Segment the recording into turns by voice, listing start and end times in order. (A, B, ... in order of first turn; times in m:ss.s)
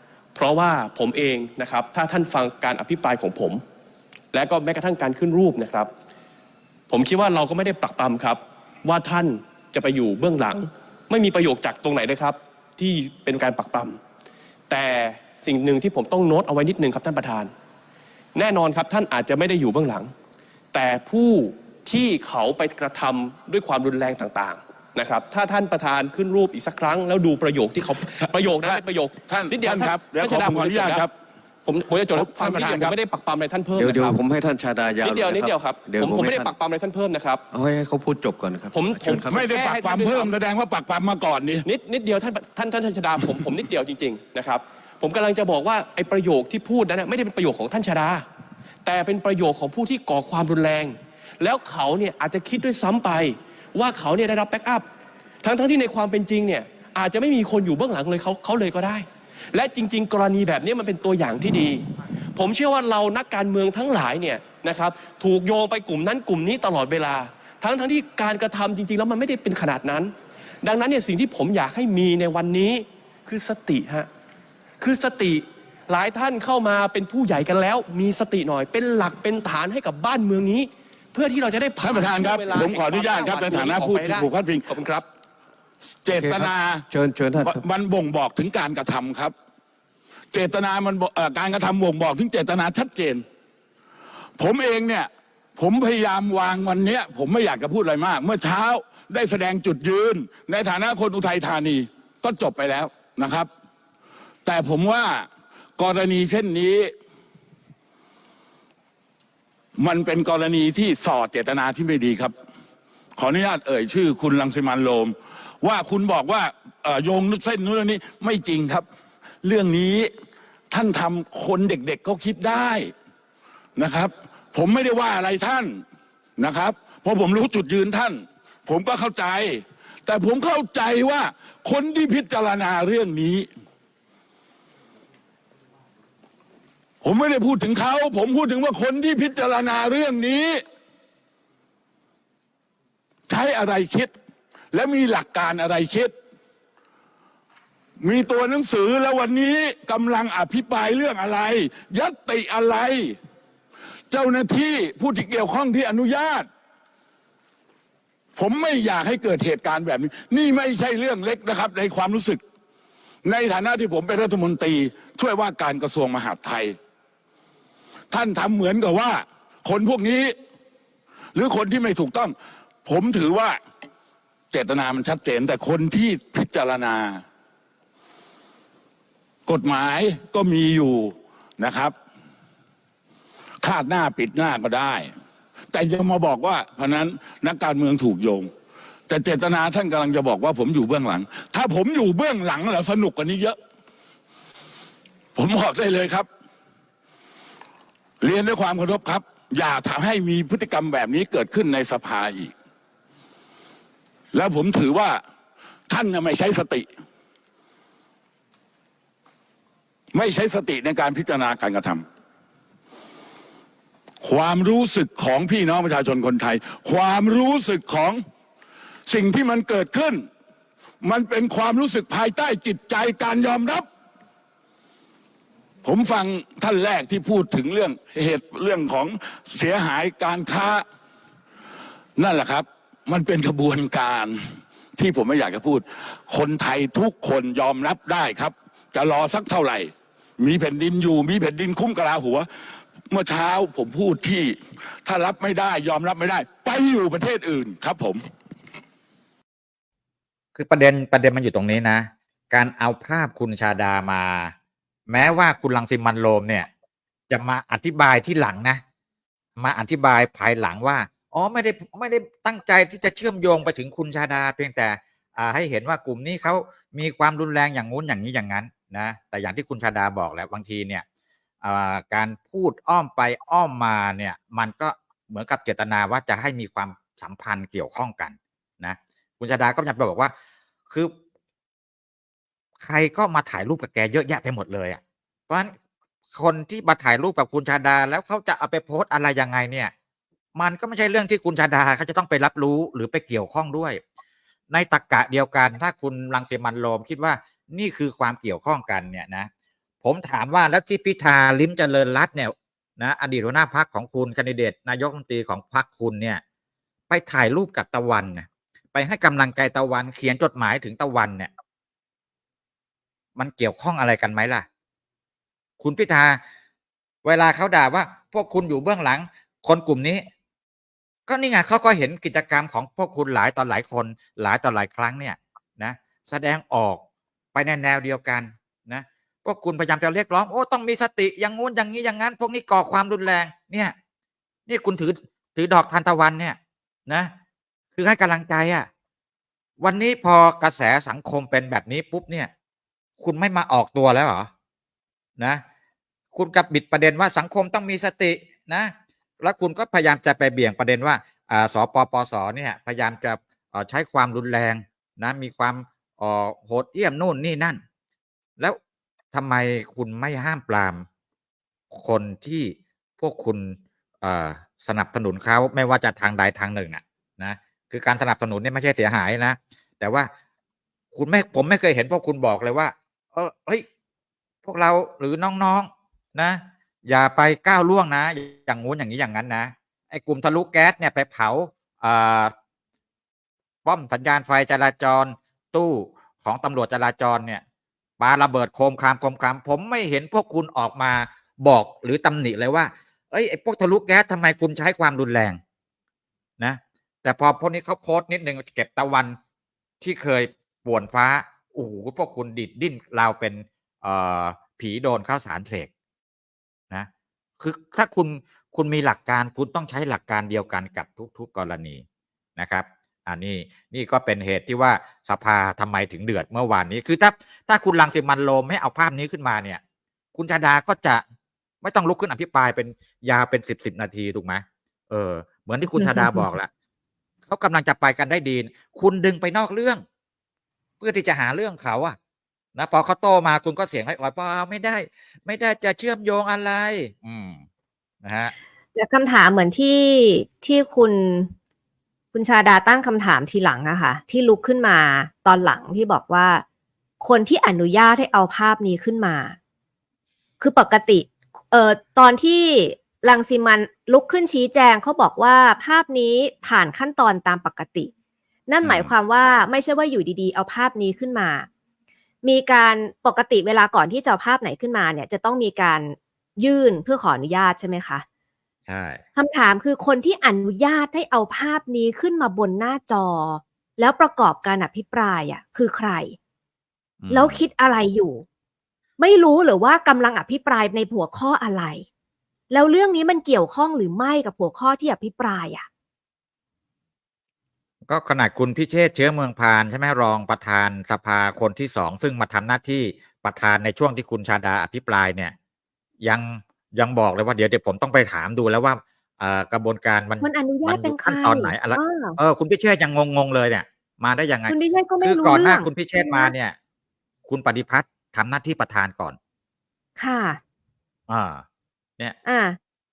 0:00.3-0:03.6 A
0:04.3-0:05.9 A
0:06.9-0:14.0 A
0:14.7-0:17.5 A
0:18.3-0:20.1 A
0:20.7-0:31.0 A
0:28.2-0:31.1 B
0:31.6-0:34.2 A
0:32.1-0:33.0 B
0:33.8-0:36.5 C
0:35.0-0:37.4 A
0:37.5-0:39.5 C
0:38.7-0:40.3 A
0:39.3-0:41.6 B
0:41.6-0:48.2 A
0:48.8-0:54.8 A
0:55.4-1:14.1 A
1:14.8-1:25.0 A
1:21.8-1:24.7 B
1:26.0-1:26.8 B
1:26.2-1:27.6 C
1:27.4-1:29.3 B
1:30.3-1:33.2 B
1:34.4-1:43.5 B
1:44.4-1:45.3 B
1:45.8-1:46.9 B
1:49.8-1:52.3 B
1:53.2-1:58.8 B
1:59.4-2:00.1 B
2:00.7-2:02.9 B
2:03.8-2:05.8 B
2:06.4-2:13.5 B
2:17.0-2:20.6 B
2:23.3-2:24.1 B
2:24.7-2:26.1 B
2:28.0-2:33.2 B
2:34.1-2:36.5 B
2:38.4-2:42.4 B
2:43.2-2:46.8 B
2:48.1-2:50.3 B
2:51.3-2:53.6 B
2:54.5-2:57.2 B
2:59.5-3:01.9 B
3:03.6-3:05.1 B
3:05.7-3:08.5 B
3:09.1-3:13.6 B
3:15.4-3:16.3 B
3:18.2-3:22.5 B
3:24.3-3:25.2 B
3:25.9-3:26.9 B
3:30.1-3:32.0 B
3:34.2-3:38.2 B
3:39.1-3:40.2 B
3:41.0-3:43.8 B
3:45.8-3:50.8 B
3:52.2-3:54.4 B
3:55.0-4:02.5 B
4:03.1-4:08.2 B
4:10.5-4:14.5 D
4:15.1-4:16.7 D
4:17.3-4:18.8 D
4:19.6-4:31.0 D
4:31.6-4:40.3 D
4:42.8-4:45.7 D
4:46.3-4:49.9 D
4:50.5-4:54.0 D
4:54.7-4:59.5 D
5:00.0-5:06.4 D
5:07.1-5:11.5 D
5:13.4-5:14.6 D
5:15.8-5:16.4 D
5:17.2-5:20.2 D
5:21.3-5:27.0 D
5:27.5-5:33.9 D
5:34.7-5:37.3 D
5:38.0-5:38.9 D
5:39.8-5:42.5 D
5:43.2-5:44.5 D
5:45.4-5:45.6 D
5:46.3-5:57.8 D
5:59.3-6:01.0 D
6:01.9-6:10.3 D
6:11.1-6:13.8 D
6:14.6-6:22.5 D
6:23.8-6:27.6 D
6:28.2-6:35.6 D
6:36.6-6:39.4 D
6:40.0-6:45.9 D
6:47.6-6:52.0 D
6:52.6-6:59.8 D
7:00.3-7:01.2 D
7:01.8-7:06.7 D
7:06.0-7:06.5 E
7:07.5-7:10.0 D
7:11.0-7:12.2 D
7:12.7-7:17.6 D
7:18.2-7:18.5 D
7:18.9-7:21.5 E
7:22.3-7:26.6 E
7:27.2-7:29.6 E
7:30.6-7:38.1 E
7:38.7-7:41.7 E
7:38.8-7:39.1 D
7:42.4-7:48.2 E
7:48.9-7:49.2 D
7:49.4-7:56.4 E
7:57.2-7:57.6 D
7:57.3-7:58.4 E
7:59.2-8:02.0 E
8:02.7-8:05.8 E
8:08.1-8:15.5 D
8:16.2-8:26.8 D
8:20.4-8:22.4 E
8:24.7-8:26.5 E
8:27.5-8:29.4 D
8:30.2-8:30.6 E
8:31.3-8:31.6 D
8:32.4-8:32.8 E